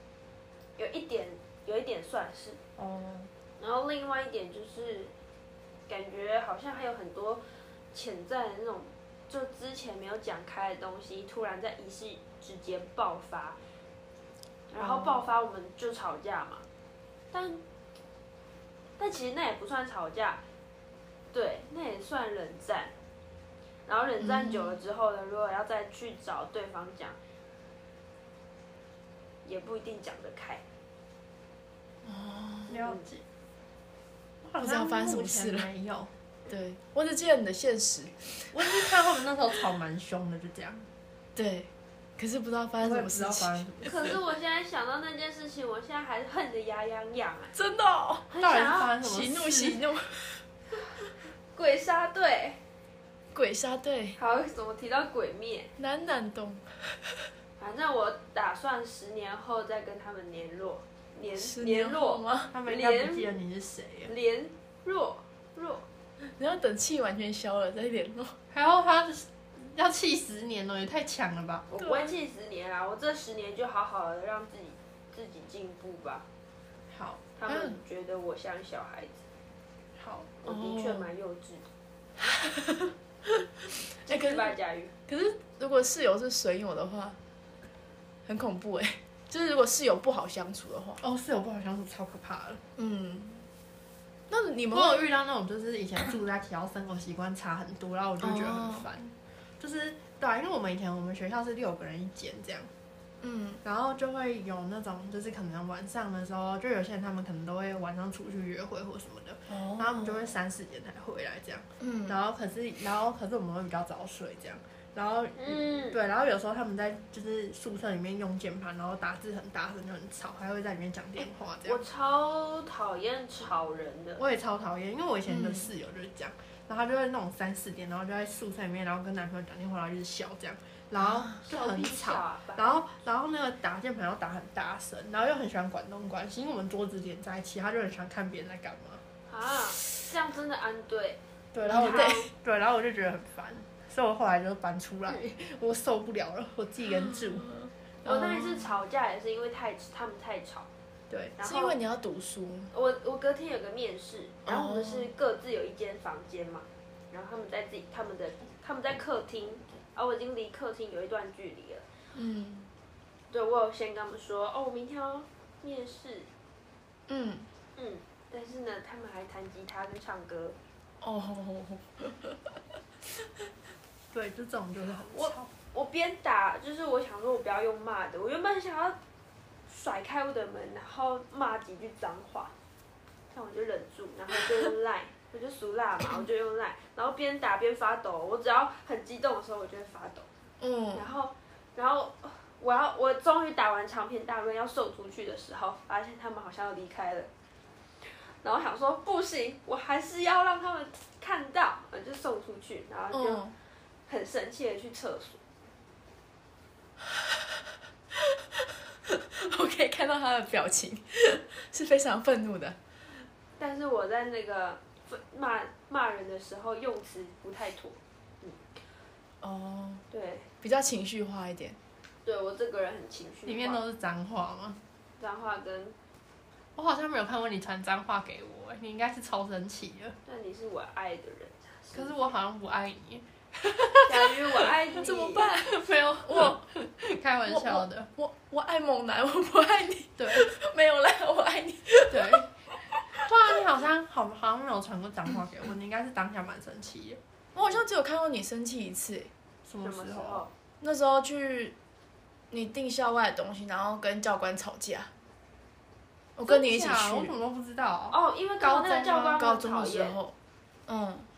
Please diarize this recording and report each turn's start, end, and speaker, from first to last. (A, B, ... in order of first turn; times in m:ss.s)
0:00.8-0:02.6 A
0:02.8-0:03.3 B
0:03.6-0:05.1 A
0:05.9-0:13.6 A
0:14.7-0:16.6 A
0:14.8-0:15.2 C
0:17.3-0:17.6 A
0:19.0-0:20.4 A
0:21.3-0:22.9 A
0:23.9-0:27.2 A
0:24.2-0:24.8 C
0:29.4-0:30.6 A
0:32.0-0:32.7 C
0:32.7-0:33.2 B
0:32.7-0:33.1 A
0:34.4-0:36.1 B
0:34.6-0:35.7 C
0:36.5-0:38.9 C
0:38.5-0:40.9 B
0:41.4-0:43.9 C
0:42.8-0:44.2 B
0:43.8-0:47.5 A
0:47.5-0:48.3 C
0:48.3-0:48.9 A
0:48.4-0:49.8 B
0:48.9-0:50.4 C
0:51.5-0:52.6 A
0:53.3-0:54.2 C
0:54.2-0:55.7 A
0:55.8-0:56.6 C
0:57.6-1:03.4 A
1:01.3-1:02.5 C
1:02.5-1:04.1 B
1:04.1-1:05.9 A
1:06.4-1:08.4 C
1:08.5-1:11.7 B
1:11.7-1:16.3 A
1:11.8-1:12.1 C
1:16.9-1:17.8 B
1:17.4-1:19.2 A
1:20.0-1:20.3 B
1:20.4-1:21.7 A
1:20.4-1:21.1 C
1:22.2-1:23.4 C
1:24.0-1:24.5 C
1:24.0-1:24.9 A
1:25.1-1:27.2 C
1:28.3-1:31.0 C
1:31.0-1:32.6 B
1:32.8-1:33.5 C
1:34.3-1:35.1 C
1:34.7-1:42.7 B
1:38.2-1:38.9 C
1:43.2-1:43.6 C
1:43.6-2:01.8 B
1:49.5-1:50.3 C
1:51.8-1:52.2 C
1:55.4-1:56.0 A
2:01.2-2:04.2 A
2:04.2-2:19.0 B
2:05.3-2:05.7 C
2:11.0-2:11.4 C
2:11.5-2:12.8 A
2:19.3-2:22.3 A
2:21.5-2:27.5 B
2:21.7-2:22.3 C
2:26.9-2:28.8 C
2:28.0-2:30.7 A
2:31.4-2:31.8 A
2:31.4-2:32.7 C
2:32.7-2:41.9 A
2:34.5-2:35.1 C
2:42.2-2:42.7 C
2:43.3-2:46.3 A
2:47.1-2:47.5 C
2:47.8-2:50.6 A
2:51.0-2:52.6 C
2:54.1-2:55.5 B
2:55.1-2:59.0 A
2:59.7-3:02.5 A
3:03.3-3:10.3 A
3:10.6-3:11.1 C
3:10.9-3:17.3 A
3:18.0-3:23.5 A
3:23.1-3:23.5 C
3:24.1-3:25.4 A
3:27.1-3:27.5 C
3:28.2-3:32.8 C
3:33.6-3:38.6 A
3:39.4-3:40.0 C
3:40.1-3:40.5 A
3:40.6-3:41.8 C
3:42.2-3:43.8 A
3:43.5-3:44.8 B
3:45.2-3:46.0 A
3:46.8-3:50.2 B
3:50.3-3:52.2 A
3:51.9-3:53.3 B
3:53.7-3:54.2 C
3:54.0-3:55.6 A
3:54.9-4:03.2 C
3:55.7-3:58.1 B
4:00.2-4:00.5 B
4:02.1-4:02.5 B
4:03.2-4:07.2 B
4:07.6-4:09.3 C
4:09.7-4:10.5 B
4:09.8-4:10.5 A
4:10.8-4:11.8 C
4:12.5-4:15.1 C
4:16.4-4:17.3 C
4:16.5-4:19.4 B
4:18.1-4:20.2 A
4:19.4-4:20.3 C
4:20.9-4:21.3 C